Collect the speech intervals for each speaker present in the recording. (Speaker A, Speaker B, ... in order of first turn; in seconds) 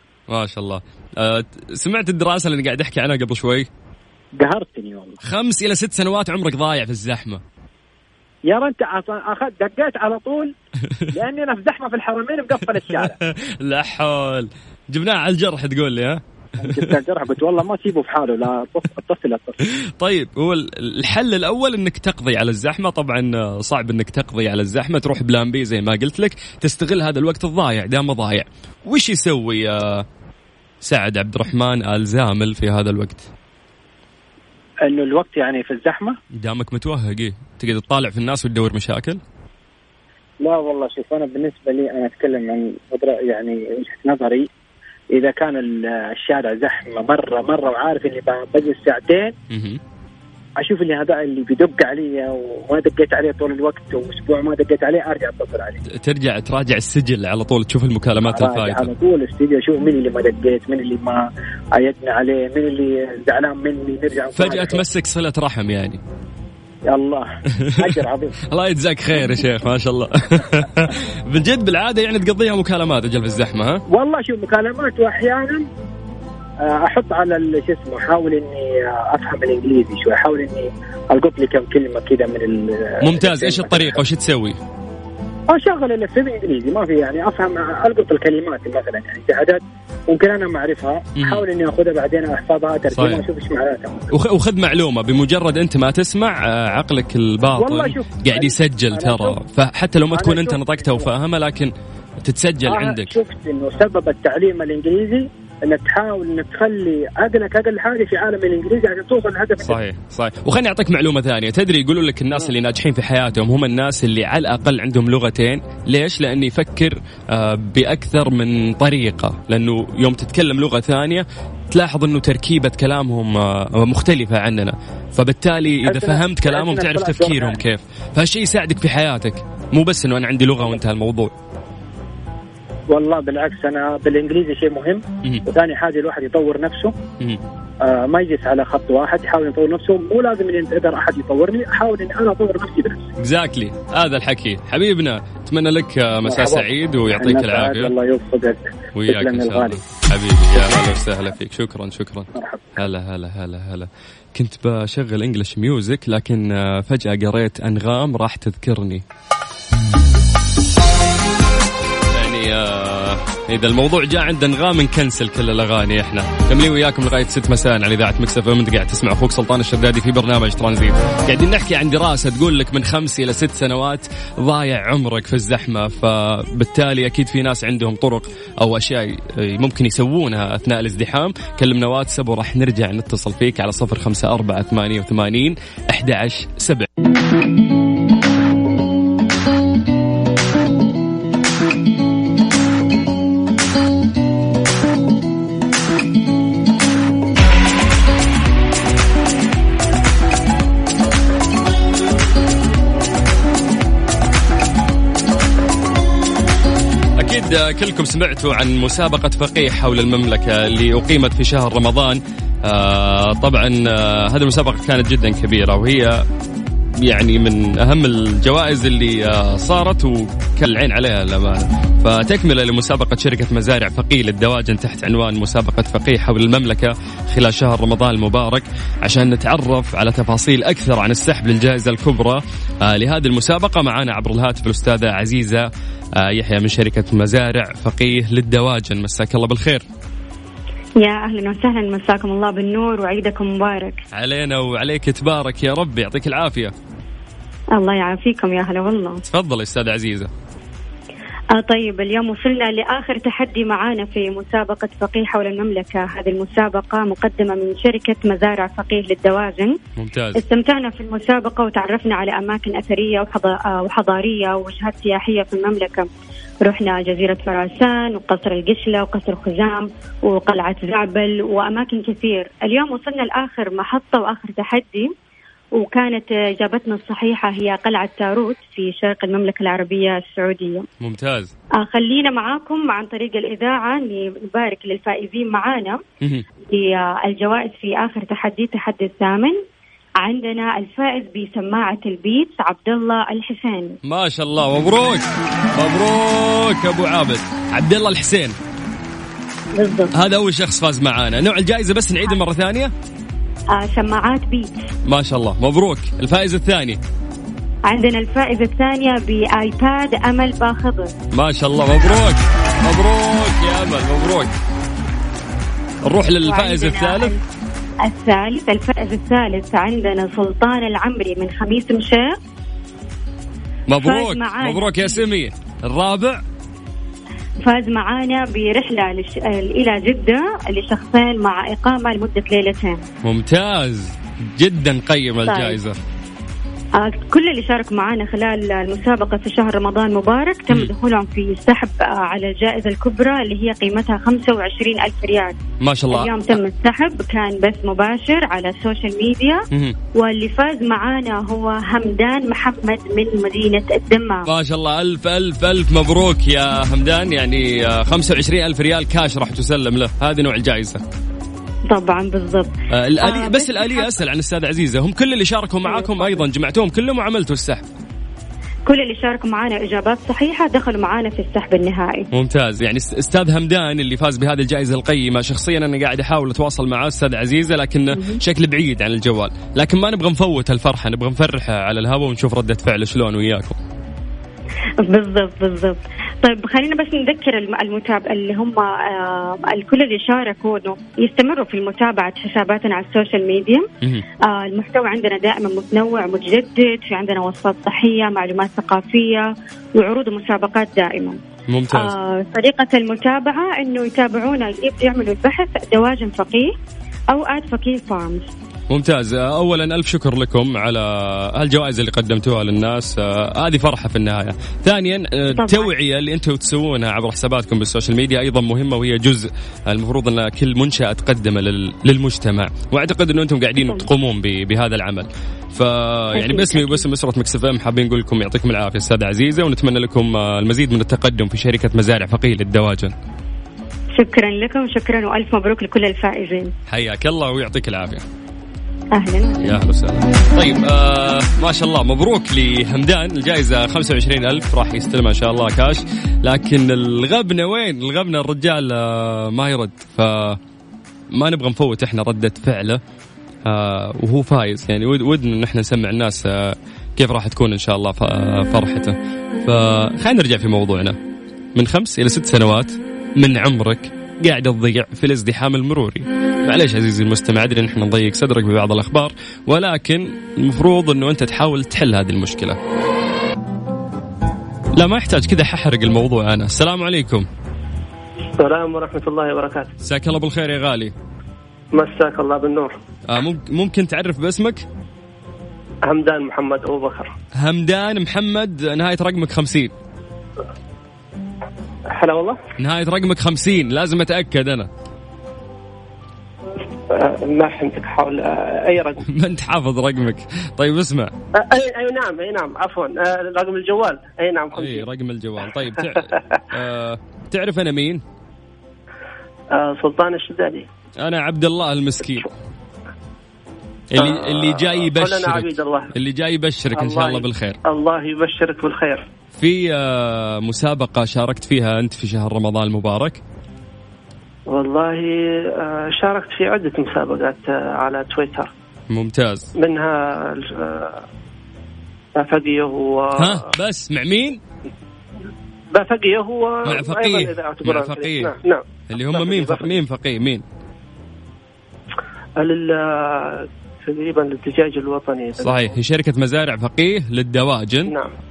Speaker A: 0.3-3.7, 5.2-7.4, 13.0-16.2, 20.0-30.1, 30.8-33.3, 36.3-39.2, 49.5-49.8, 55.9-58.9, 64.4-66.0, 67.6-68.0, 68.5-73.8, 83.0-84.6, 91.2-91.4, 92.9-93.2, 94.1-103.2, 109.6-131.3, 143.2-147.9, 148.9-159.0, 162.1-186.9, 207.2-216.2, 217.0-235.7, 236.2-239.8, 244.1-246.7, 249.3-250.3, 260.0-260.4, 281.0-281.5, 294.1-295.2, 295.8-298.6, 300.1-302.9, 305.1-307.0, 311.3-314.5, 316.1-317.3, 323.9-326.4, 333.2-336.0, 345.8-346.6, 354.5-361.0, 362.9-367.9, 372.3-383.8, 401.7-402.1, 408.9-433.1, 436.9-438.2, 439.6-450.6, 451.3-453.0, 453.7-461.2, 461.8-472.8, 474.9-477.5, 480.0-481.1, 483.3-484.8, 487.6-489.9, 492.8-494.9, 499.3-501.3, 504.8-508.2, 511.2-512.5, 514.1-517.8, 519.6-523.4, 529.1-529.7, 533.4-534.6, 536.9-538.5, 539.1-540.6, 545.6-548.1
Speaker B: 4.4-5.2, 8.5-10.5, 11.1-13.2, 16.6-19.6, 34.9-36.2, 40.4-44.5, 45.1-49.3, 50.6-55.8, 58.2-61.2, 61.7-64.8, 66.9-68.4, 73.9-75.7, 76.6-84.0, 85.5-94.1, 97.6-99.4, 100.1-101.1, 102.7-109.8, 125.8-127.6, 132.9-136.9, 137.8-143.1, 146.2-149.8, 152.3-152.8
Speaker C: 241.0-244.0, 247.8-249.2, 251.5-259.8, 260.4-266.1, 266.6-275.1, 275.8-280.9, 281.8-286.0, 286.7-289.6, 290.2-294.0, 299.8-300.1, 303.7-304.9, 307.9-311.1, 316.4-317.4, 318.0-322.4, 324.0-325.3, 327.6-333.1, 335.5-335.8, 337.0-345.6, 346.1-354.5, 361.9-364.1, 365.9-366.4, 368.9-372.3, 385.0-393.9, 394.4-401.4, 401.9-406.7, 407.3-408.5, 415.6-415.9, 423.8-424.1, 426.4-427.1, 434.1-436.7, 439.1-439.8
Speaker D: 478.6-479.9, 481.9-483.0, 486.1-487.3, 492.1-492.6, 497.1-499.2, 501.6-505.1, 509.7-510.9, 514.2-516.1, 517.0-519.2, 524.7-528.7, 529.8-531.2, 532.4-533.6, 535.9-539.9, 542.6-546.0